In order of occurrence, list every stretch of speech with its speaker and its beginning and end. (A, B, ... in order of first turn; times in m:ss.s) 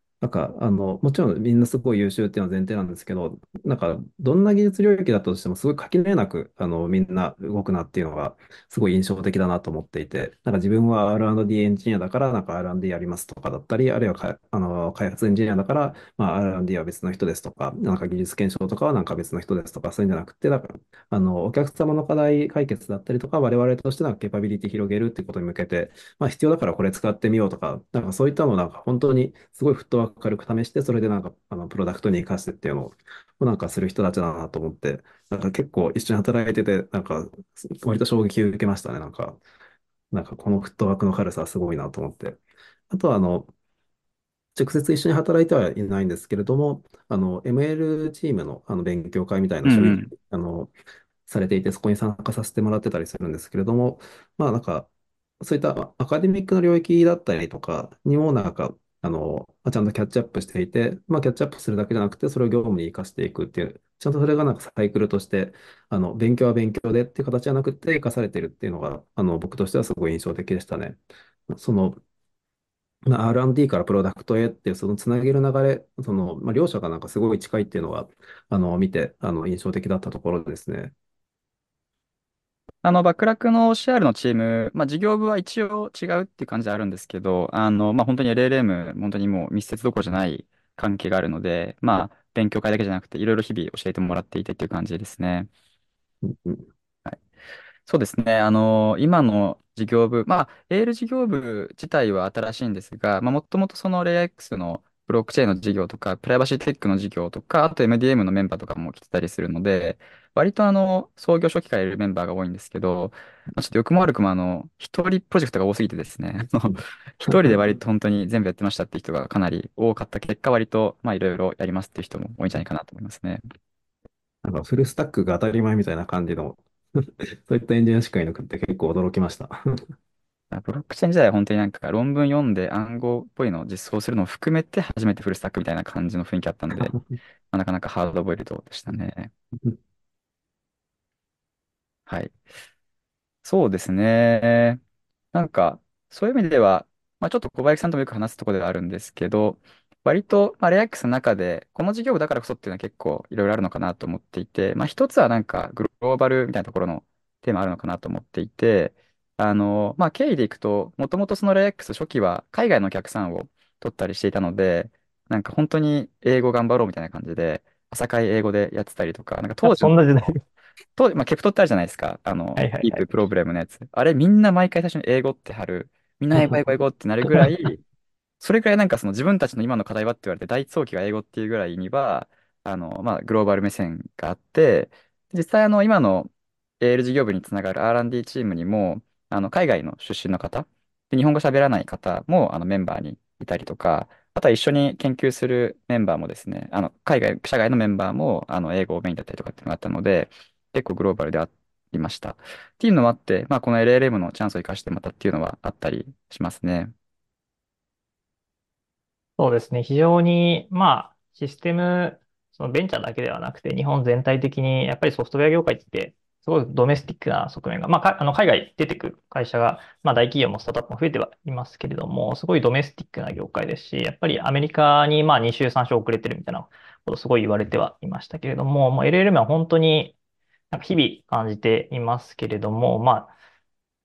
0:00.2-0:39.4 A
0:40.1-0:43.5 A
0:44.5-0:50.7 A
0:49.6-0:50.1 B
0:51.3-0:54.9 A
0:55.4-1:12.0 A
1:13.1-1:20.9 A
1:22.8-1:35.5 B
1:36.2-1:36.7 A
1:37.8-2:03.4 B
1:57.2-1:57.6 A
2:04.4-2:09.5 A
2:10.5-2:17.0 B
2:17.5-2:19.3 B
2:22.1-2:22.4 B
2:23.4-2:24.8 B
2:25.3-2:49.9 B
2:49.6-2:50.4 C
2:51.0-2:57.8 B
2:52.6-2:53.2 C
2:57.2-2:57.5 C
2:58.4-3:26.9 B
3:29.4-3:50.2 C
3:50.7-3:53.3 C